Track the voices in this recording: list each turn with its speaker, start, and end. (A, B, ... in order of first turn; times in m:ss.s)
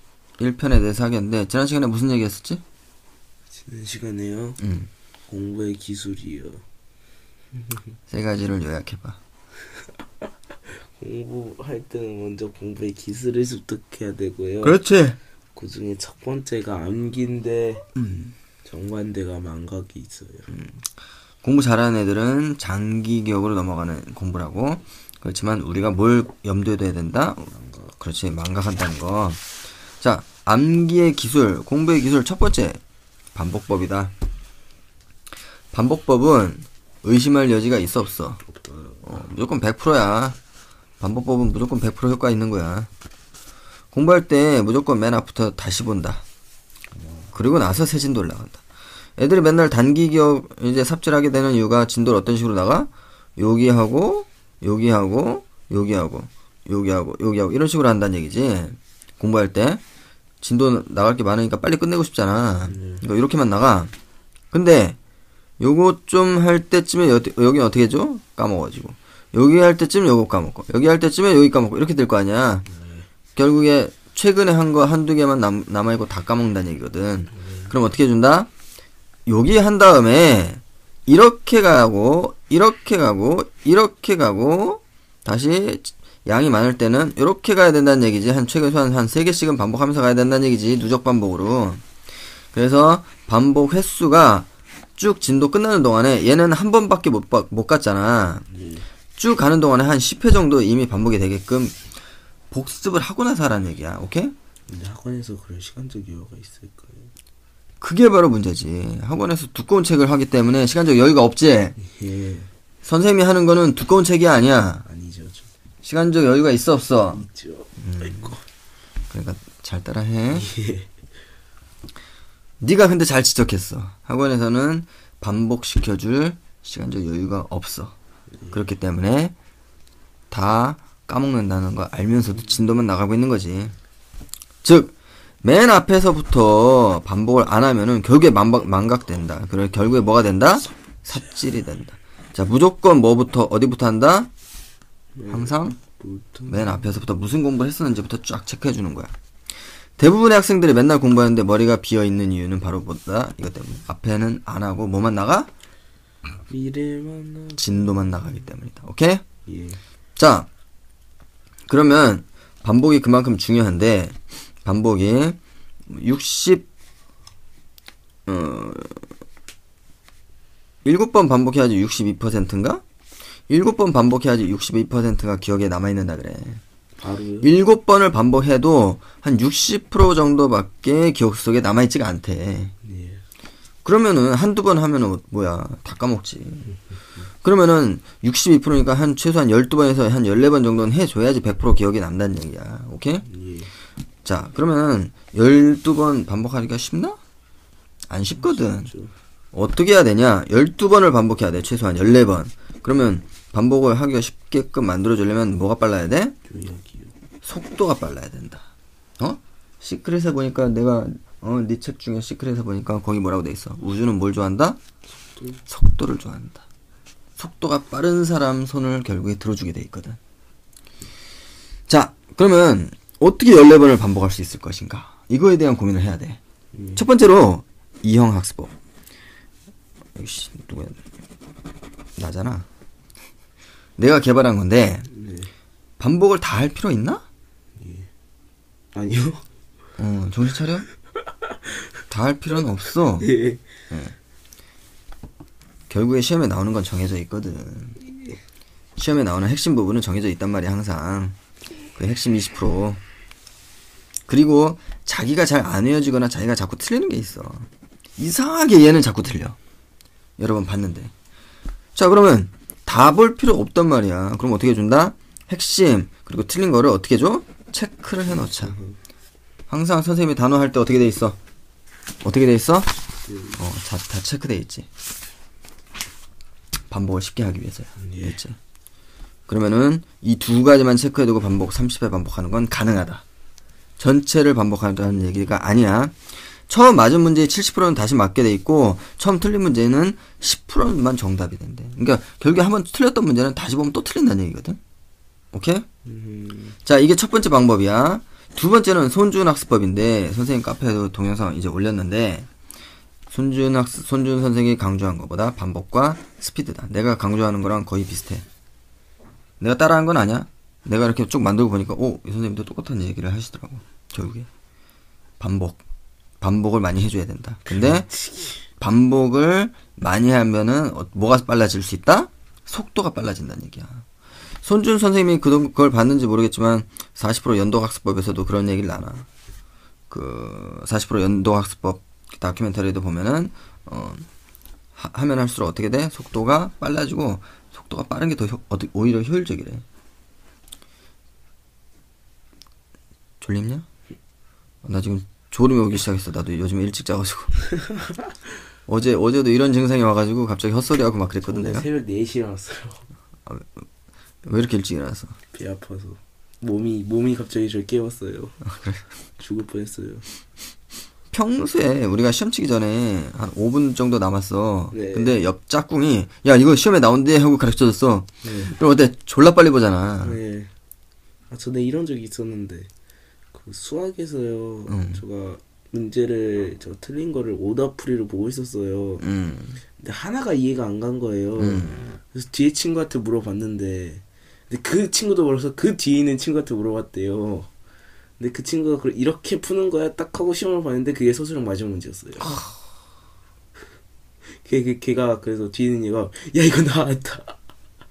0:00.4-0:02.6 A
0:03.5-0:04.6 B
0:04.6-0:04.9 A
0:05.3-0:06.6 B
0:08.1-0:09.2 A
0:10.5-0:14.8 B
0:14.6-0:15.2 A
0:15.5-0:17.9 B
0:17.9-0:18.3 A
0:18.6-0:20.5 B
0:20.5-0:20.8 A
0:21.4-0:29.4 A
0:27.5-0:28.0 B
0:30.0-0:32.8 A
0:33.3-0:34.1 A
0:35.7-0:38.4 A
0:38.4-0:39.3 B
0:39.0-0:40.4 A
0:41.0-0:42.9 A
0:43.9-0:46.2 A
0:46.9-0:47.3 B
0:47.3-0:48.6 A
0:49.2-0:59.8 A
1:00.4-1:03.9 A
1:02.6-1:03.0 B
1:04.5-1:05.0 A
1:05.6-1:12.7 A
1:12.7-1:13.1 B
1:13.4-1:18.5 A
1:17.3-1:17.7 B
1:19.2-1:31.8 A
1:32.5-1:38.5 A
1:38.5-1:38.8 B
1:39.2-1:41.8 A
1:42.5-1:44.3 A
1:44.7-1:47.1 B
1:47.8-1:51.8 A
1:51.8-1:52.5 B
1:52.8-1:54.8 A
1:54.8-1:55.5 B
1:55.8-1:57.2 A
1:57.1-1:58.4 B
1:57.8-1:58.3 A
1:59.1-2:00.5 A
2:00.3-2:00.9 B
2:02.6-2:07.9 A
2:08.5-2:09.3 A
2:10.3-2:13.7 A
2:14.6-2:24.3 A
2:25.1-2:26.9 B
2:25.3-2:25.8 A
2:26.5-2:29.1 A
2:30.0-2:35.5 A
2:36.5-2:38.4 B
2:37.6-2:39.2 A
2:39.4-2:39.8 B
2:40.2-2:40.5 A
2:41.7-2:45.4 A
2:45.9-2:46.6 A
2:48.2-2:49.0 A
2:50.8-2:52.8 A
2:53.5-2:56.6 A
2:57.0-2:57.5 B
2:57.4-3:02.7 A
3:02.8-3:03.2 B
3:03.8-3:06.7 A
3:07.4-3:13.2 A
3:13.2-3:13.7 B
3:14.2-3:17.2 A
3:18.1-3:18.9 A
3:18.4-3:19.1 B
3:19.5-3:26.4 A
3:26.4-3:27.1 B
3:27.4-3:28.7 A
3:29.2-3:34.8 A
3:35.3-3:35.6 B
3:35.7-3:36.6 A
3:37.4-3:40.2 A
3:41.9-3:46.4 A
3:46.7-3:47.0 B
3:46.9-3:48.7 A
3:50.2-3:51.0 A
3:52.2-3:52.6 A
3:54.0-3:55.1 A
3:55.1-3:55.5 B
3:56.0-3:57.2 A
3:57.8-3:58.1 B
3:58.9-3:59.4 B
4:00.0-4:00.9 A
4:02.1-4:03.3 A
4:03.2-4:03.6 B
4:03.9-4:04.1 A
4:05.9-4:08.0 A
4:08.1-4:08.3 B
4:09.0-4:11.4 A
4:11.9-4:13.0 A
4:14.3-4:19.6 A
4:20.4-4:21.1 A
4:21.9-4:28.7 A
4:28.3-4:29.0 B
4:29.7-4:31.4 A
4:32.2-4:32.9 A
4:33.2-4:33.6 B
4:33.6-4:34.9 A
4:36.9-4:38.6 A
4:38.0-4:38.4 B
4:39.5-4:43.2 A
4:44.0-4:54.8 A
4:55.5-4:55.9 A
4:56.0-4:56.8 B
4:56.8-5:02.5 A
5:03.3-5:08.4 A
5:09.6-5:14.5 A
5:15.4-5:15.8 A
5:16.4-5:18.1 A
5:17.6-5:18.6 B
5:18.8-5:24.0 A
5:24.6-5:29.3 A
5:30.1-5:34.2 A
5:35.0-5:39.8 A
5:43.4-5:43.8 A
5:44.8-5:47.6 A
5:47.8-5:48.3 B
5:48.9-5:51.8 A
5:51.4-5:53.0 B
5:53.4-5:53.8 A
5:54.4-5:55.4 A
5:55.5-5:58.6 B
5:58.6-5:59.0 A
5:59.4-6:00.2 B
6:01.3-6:10.4 A
6:04.9-6:05.4 B
6:08.4-6:08.8 B
6:10.2-6:10.7 B
6:11.5-6:12.9 B
6:13.5-6:19.2 B
6:14.9-6:15.2 A
6:19.2-6:19.8 A
6:20.0-6:27.7 B
6:21.6-6:22.1 A
6:28.4-6:32.7 B
6:34.6-6:37.6 B